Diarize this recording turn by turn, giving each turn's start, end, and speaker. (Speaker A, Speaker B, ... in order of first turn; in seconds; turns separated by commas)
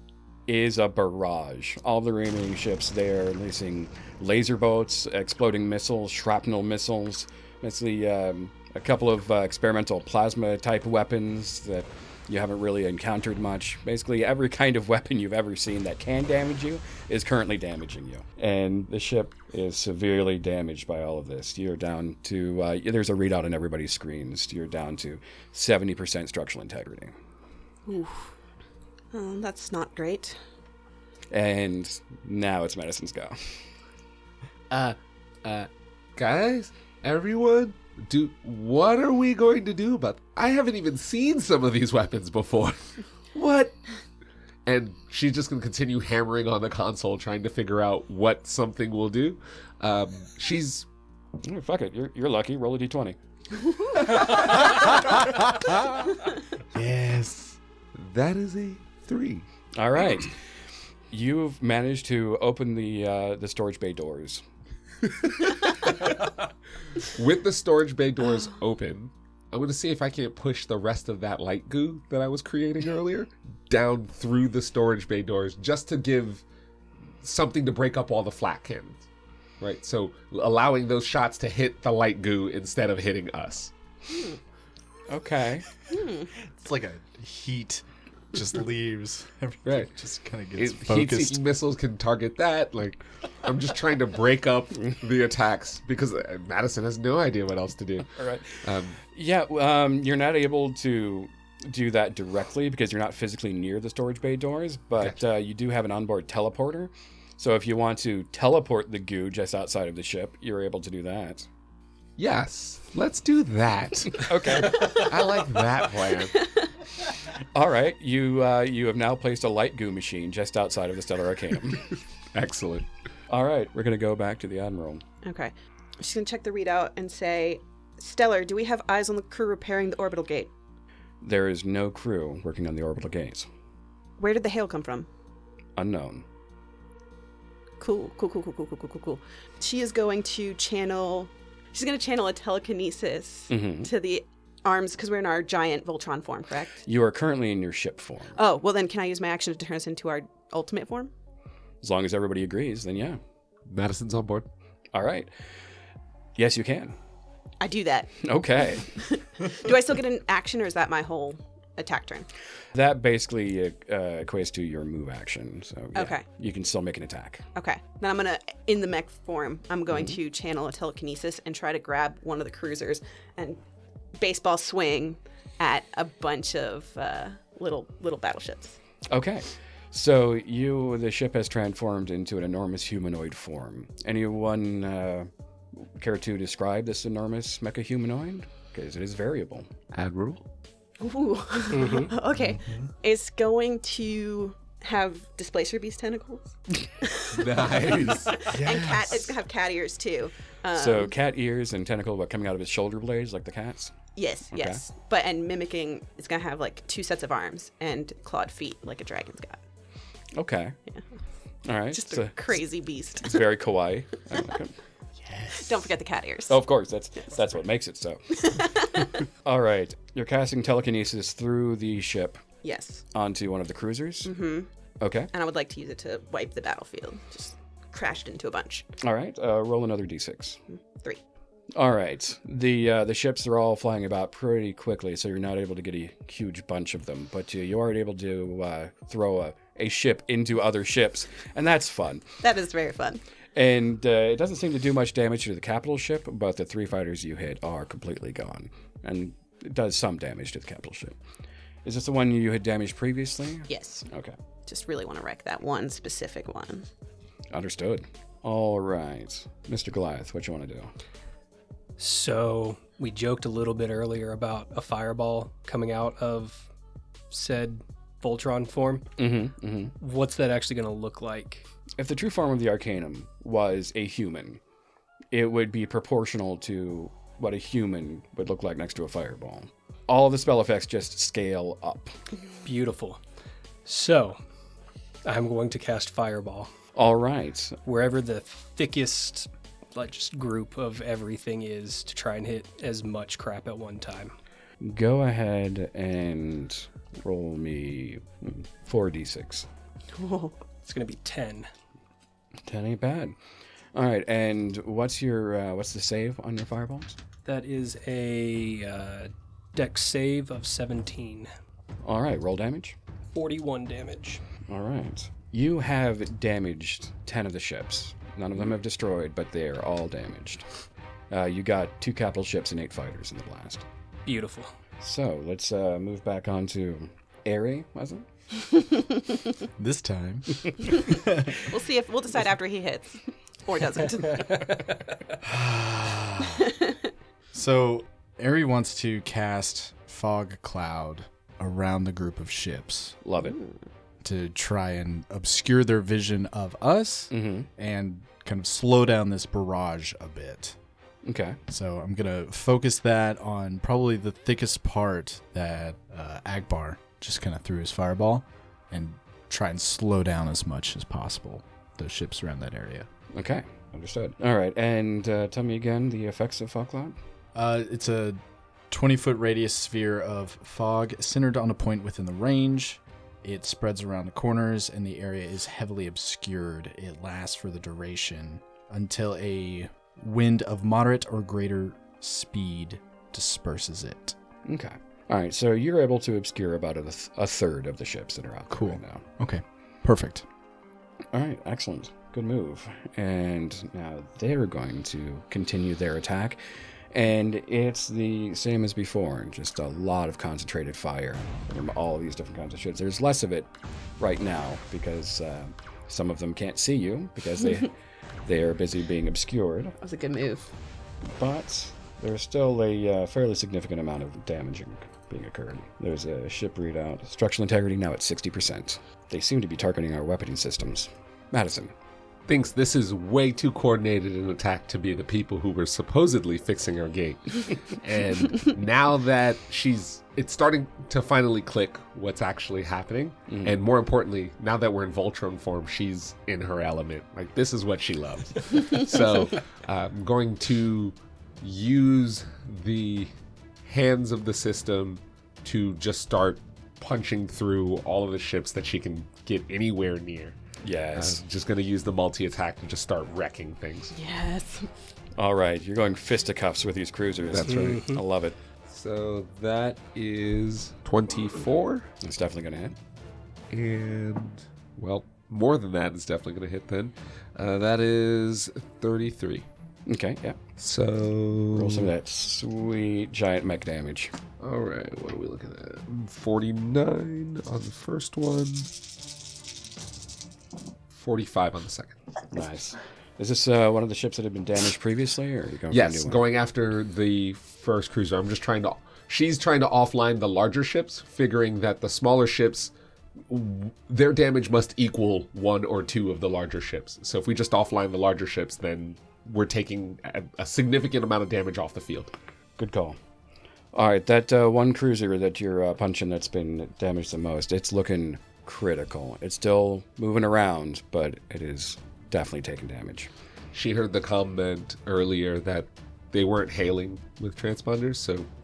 Speaker A: 0.5-27.1, Speaker B: 27.9-28.3, Speaker B: 29.1-30.4, Speaker A: 31.3-33.6, Speaker C: 34.7-43.8, Speaker C: 44.6-50.9, Speaker A: 51.4-53.2, Speaker D: 54.4-56.1, Speaker D: 56.7-57.6, Speaker C: 57.9-59.5, Speaker A: 59.7-60.4, Speaker A: 61.1-64.4, Speaker C: 65.7-66.1, Speaker C: 67.0-76.4, Speaker C: 77.2-79.0, Speaker C: 79.6-83.7, Speaker B: 84.1-84.4, Speaker A: 85.1-85.7, Speaker B: 85.9-86.3, Speaker D: 86.5-91.4, Speaker C: 89.6-89.9, Speaker C: 90.6-99.0, Speaker A: 98.1-98.5, Speaker A: 99.1-111.5, Speaker C: 112.2-116.4, Speaker A: 114.2-115.0, Speaker A: 117.5-121.9, Speaker C: 122.3-122.8, Speaker A: 123.3-125.0, Speaker B: 125.2-130.5, Speaker A: 131.2-133.5, Speaker B: 134.2-135.1, Speaker A: 135.8-136.2, Speaker B: 137.8-146.8, Speaker A: 143.5-143.9, Speaker A: 146.8-148.4, Speaker B: 148.3-151.1, Speaker A: 151.8-153.2, Speaker C: 153.7-154.5, Speaker A: 154.9-155.3, Speaker A: 156.3-156.9, Speaker B: 157.6-158.1, Speaker A: 158.2-158.9, Speaker B: 158.8-162.3, Speaker A: 162.7-167.4, Speaker B: 165.9-166.2, Speaker B: 167.5-173.6, Speaker A: 169.9-170.2, Speaker B: 174.2-178.8, Speaker A: 179.1-189.7, Speaker C: 189.9-190.4, Speaker B: 191.0-201.1, Speaker E: 191.7-192.1, Speaker D: 192.3-192.9, Speaker C: 197.3-198.5, Speaker D: 198.4-199.2, Speaker A: 200.7-203.9, Speaker B: 204.2-209.6, Speaker A: 204.5-204.8, Speaker A: 210.3-210.8, Speaker A: 211.6-212.6, Speaker B: 211.9-213.4, Speaker A: 213.2-214.7, Speaker D: 215.2-215.9, Speaker B: 215.5-216.6, Speaker A: 216.5-222.4, Speaker B: 218.3-219.1, Speaker B: 222.6-223.0, Speaker A: 223.1-224.3, Speaker B: 224.2-224.7, Speaker A: 225.0-225.3, Speaker B: 225.3-228.9, Speaker A: 229.0-230.6, Speaker B: 230.7-231.2, Speaker A: 231.7-242.2, Speaker B: 242.4-243.2, Speaker A: 243.5-251.2, Speaker A: 251.8-254.3, Speaker B: 253.7-254.1, Speaker B: 254.7-256.9, Speaker A: 257.5-260.9, Speaker E: 262.0-266.7, Speaker E: 267.3-269.0, Speaker A: 269.2-269.9, Speaker E: 270.0-271.6, Speaker A: 272.0-274.6, Speaker A: 275.3-282.1, Speaker E: 282.6-283.2, Speaker E: 283.8-284.4, Speaker E: 285.2-286.7, Speaker A: 286.9-287.8, Speaker E: 287.8-294.3, Speaker A: 294.8-299.6, Speaker B: 300.1-300.6, Speaker E: 300.8-301.7, Speaker A: 302.6-303.3, Speaker A: 303.9-307.1, Speaker E: 307.4-311.5, Speaker A: 312.0-312.9, Speaker E: 313.3-314.4, Speaker A: 314.7-320.6, Speaker A: 321.3-323.8, Speaker E: 324.2-324.7, Speaker A: 325.0-328.2, Speaker D: 329.8-331.6, Speaker B: 331.6-334.6, Speaker D: 335.4-336.7, Speaker D: 337.5-343.2, Speaker A: 343.2-343.6, Speaker B: 343.4-343.7, Speaker D: 344.2-350.8, Speaker A: 347.3-347.7, Speaker A: 351.2-351.6, Speaker D: 351.7-363.1, Speaker A: 363.3-367.2, Speaker D: 367.5-384.4, Speaker A: 384.6-389.2, Speaker D: 388.7-390.4, Speaker A: 391.3-396.6, Speaker A: 397.1-407.9, Speaker A: 408.4-409.9, Speaker B: 410.0-410.7, Speaker A: 411.4-421.9, Speaker C: 422.5-443.3, Speaker C: 443.8-450.6, Speaker A: 450.8-451.4, Speaker C: 451.1-454.1, Speaker B: 454.1-454.9, Speaker A: 455.4-458.6, Speaker C: 457.5-457.9, Speaker E: 457.6-458.2, Speaker C: 458.9-462.1, Speaker A: 462.2-462.9, Speaker C: 463.7-469.7, Speaker A: 470.1-470.6, Speaker C: 470.8-472.1, Speaker A: 471.7-474.3, Speaker C: 474.6-478.9, Speaker C: 481.1-482.2, Speaker A: 482.5-486.4, Speaker C: 485.9-492.9, Speaker C: 493.5-502.3, Speaker A: 502.8-503.2, Speaker A: 503.9-513.3, Speaker C: 513.7-518.5